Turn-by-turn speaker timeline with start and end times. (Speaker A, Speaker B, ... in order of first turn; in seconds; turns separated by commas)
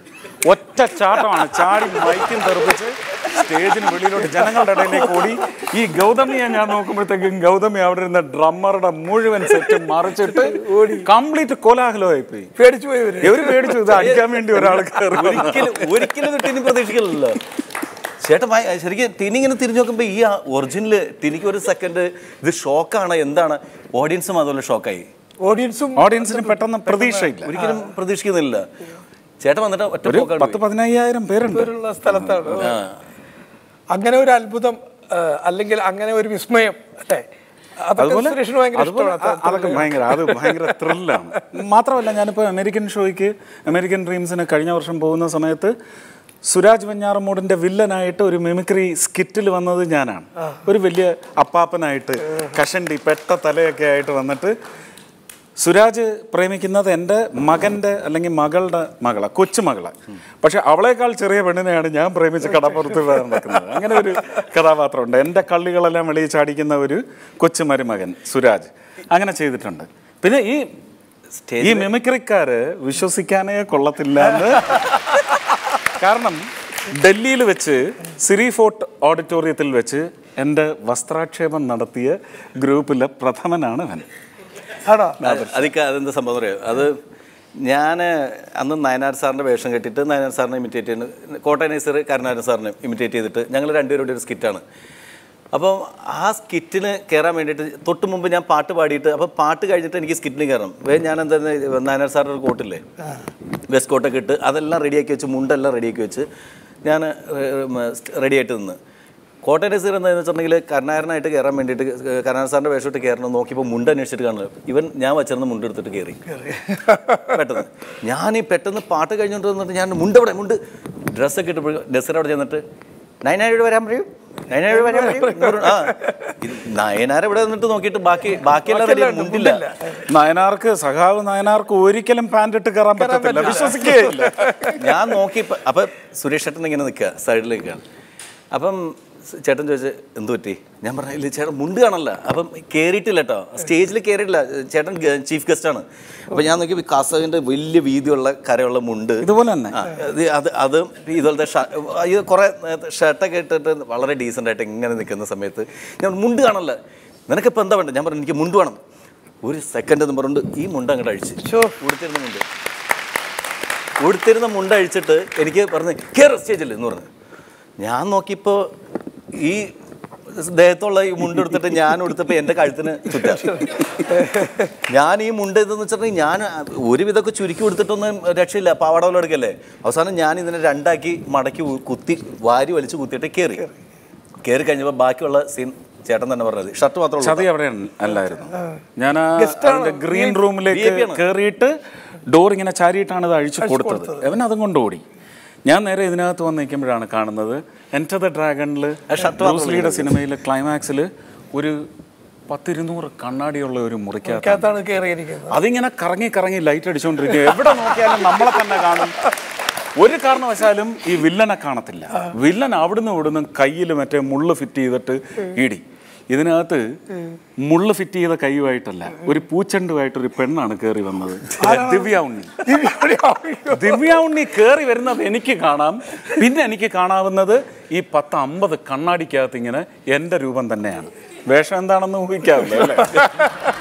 Speaker A: 0.4-12.5, Speaker B: 10.3-11.1, Speaker B: 12.6-13.9, Speaker A: 13.2-15.9, Speaker C: 13.9-17.4, Speaker C: 18.2-25.1, Speaker B: 25.4-27.8, Speaker A: 26.0-27.5, Speaker C: 27.4-28.7, Speaker C: 29.4-30.6, Speaker A: 30.1-32.7, Speaker B: 31.5-32.7, Speaker C: 32.6-32.9, Speaker B: 33.9-37.3, Speaker B: 37.8-41.4, Speaker A: 38.0-45.7, Speaker A: 46.5-54.6, Speaker A: 55.6-70.7, Speaker C: 71.4-71.9, Speaker A: 71.6-74.8, Speaker A: 76.0-84.1, Speaker B: 84.9-85.2, Speaker A: 85.2-85.7, Speaker C: 85.2-87.0, Speaker C: 87.6-94.6, Speaker C: 95.5-102.8, Speaker C: 103.7-106.3, Speaker C: 106.8-108.8, Speaker C: 109.4-116.2, Speaker B: 116.5-117.3, Speaker C: 117.3-120.6, Speaker C: 121.1-122.6, Speaker C: 123.2-129.6, Speaker B: 124.8-126.3, Speaker B: 128.7-130.0, Speaker A: 130.1-134.5, Speaker B: 133.0-134.8, Speaker C: 134.8-137.8, Speaker C: 138.5-158.8, Speaker A: 149.2-149.9, Speaker C: 159.4-162.4, Speaker B: 161.4-161.7, Speaker C: 164.0-167.1, Speaker C: 167.8-168.7, Speaker C: 169.4-169.7, Speaker C: 170.3-173.9, Speaker B: 173.7-174.5, Speaker C: 174.9-183.7, Speaker C: 184.4-187.5, Speaker A: 187.2-191.8, Speaker B: 189.3-190.4, Speaker C: 190.7-191.2, Speaker A: 192.3-195.0, Speaker B: 193.6-194.3, Speaker A: 195.7-201.9, Speaker C: 199.1-200.2, Speaker A: 202.5-204.7, Speaker B: 204.3-205.6, Speaker A: 205.5-209.3, Speaker A: 210.0-216.8, Speaker A: 217.6-222.7, Speaker B: 221.6-222.1, Speaker B: 222.6-224.1, Speaker A: 223.7-233.3